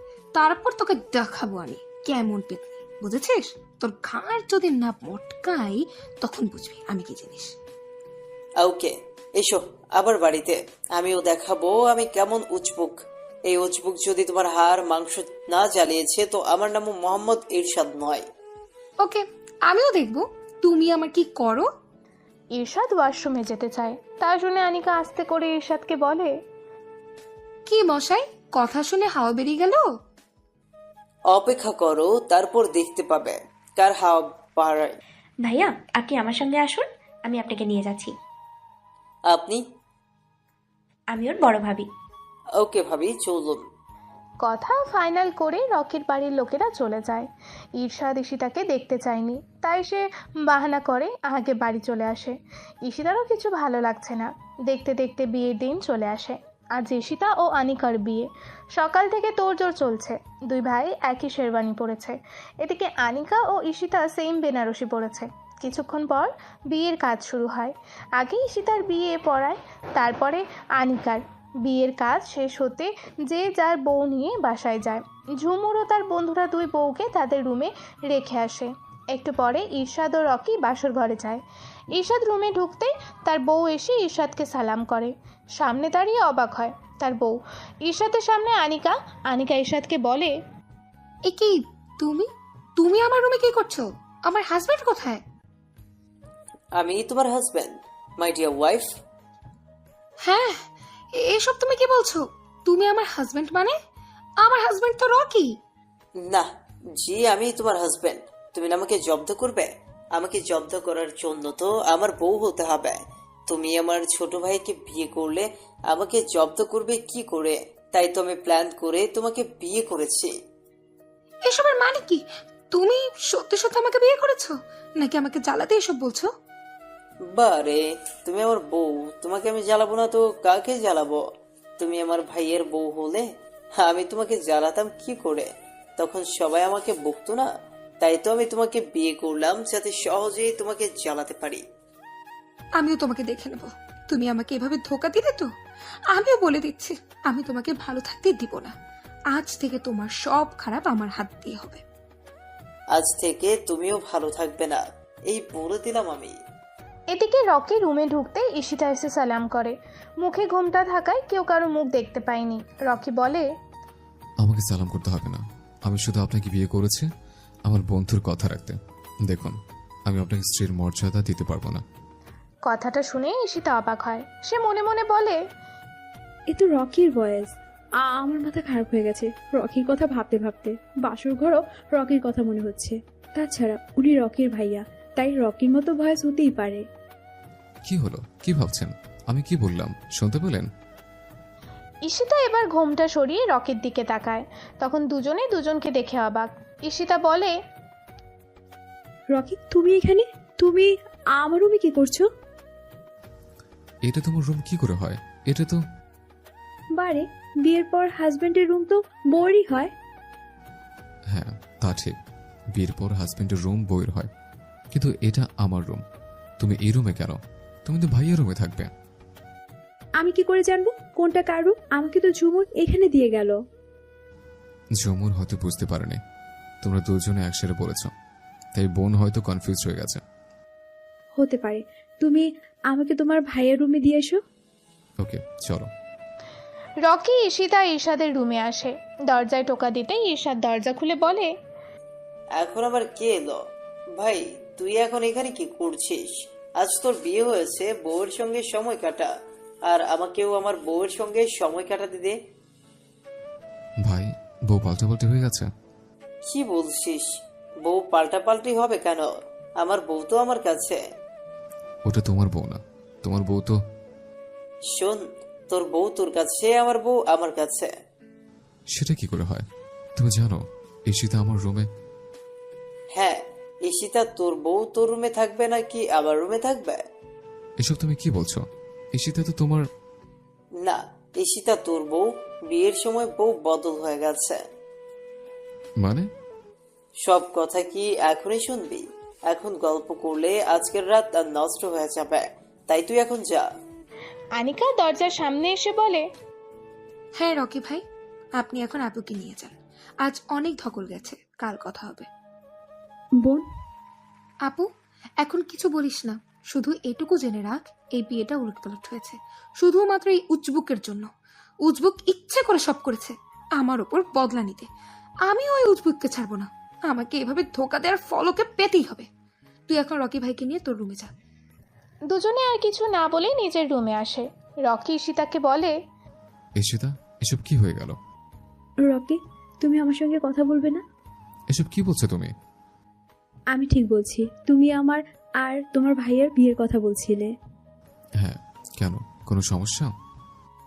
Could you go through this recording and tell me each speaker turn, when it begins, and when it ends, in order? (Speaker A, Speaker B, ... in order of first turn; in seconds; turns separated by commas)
Speaker A: 0.3-7.5, Speaker B: 8.6-12.9, Speaker B: 13.5-18.2, Speaker A: 19.0-21.7, Speaker C: 22.5-26.3, Speaker A: 27.7-29.8, Speaker B: 31.3-35.0, Speaker D: 35.4-38.1, Speaker B: 39.3-39.6, Speaker D: 41.1-41.9, Speaker B: 42.6-43.6, Speaker C: 44.4-81.4, Speaker C: 82.0-90.3, Speaker A: 91.3-95.2, Speaker B: 96.8-98.8, Speaker A: 100.2-100.6, Speaker A: 101.2-103.7, Speaker A: 104.4-105.5, Speaker B: 107.0-120.3, Speaker A: 121.5-126.3, Speaker B: 127.3-131.2, Speaker B: 131.8-133.2, Speaker B: 133.8-137.5, Speaker B: 138.0-141.6, Speaker A: 142.8-145.5, Speaker A: 146.1-148.7, Speaker A: 149.3-151.8, Speaker B: 152.9-156.4, Speaker C: 157.1-163.4, Speaker E: 164.4-167.1, Speaker E: 167.7-169.6, Speaker E: 170.1-171.8, Speaker C: 172.7-175.4, Speaker F: 176.5-177.5, Speaker F: 178.0-186.8, Speaker E: 187.9-190.7, Speaker C: 192.1-197.5, Speaker F: 199.3-202.3, Speaker E: 204.1-205.8, Speaker F: 207.0-209.9, Speaker E: 211.3-212.1, Speaker E: 212.8-214.3, Speaker E: 214.9-216.0, Speaker E: 216.6-218.9, Speaker F: 220.2-223.6, Speaker E: 225.0-226.2, Speaker E: 226.8-228.1, Speaker E: 228.7-230.2, Speaker F: 231.4-234.4, Speaker E: 235.2-235.9, Speaker C: 237.1-241.5, Speaker B: 242.6-243.6, Speaker B: 244.2-249.3, Speaker B: 249.9-252.3, Speaker E: 254.0-255.7, Speaker B: 256.4-257.3, Speaker B: 257.8-261.0, Speaker E: 262.1-263.7, Speaker B: 264.9-267.9, Speaker E: 268.9-269.6, Speaker E: 270.2-271.9, Speaker B: 273.1-277.0, Speaker E: 277.8-278.6, Speaker E: 279.1-279.8, Speaker B: 280.8-284.6, Speaker E: 286.0-286.3, Speaker B: 287.2-293.6, Speaker C: 294.6-296.2, Speaker A: 297.4-298.0, Speaker A: 298.6-299.7, Speaker A: 300.2-302.3, Speaker A: 305.4-311.3, Speaker A: 311.9-314.9, Speaker A: 315.5-319.3, Speaker A: 319.9-321.3, Speaker C: 322.3-325.9, Speaker E: 326.8-328.2, Speaker F: 329.1-331.0, Speaker E: 331.7-332.5, Speaker F: 333.7-337.5, Speaker E: 338.4-340.1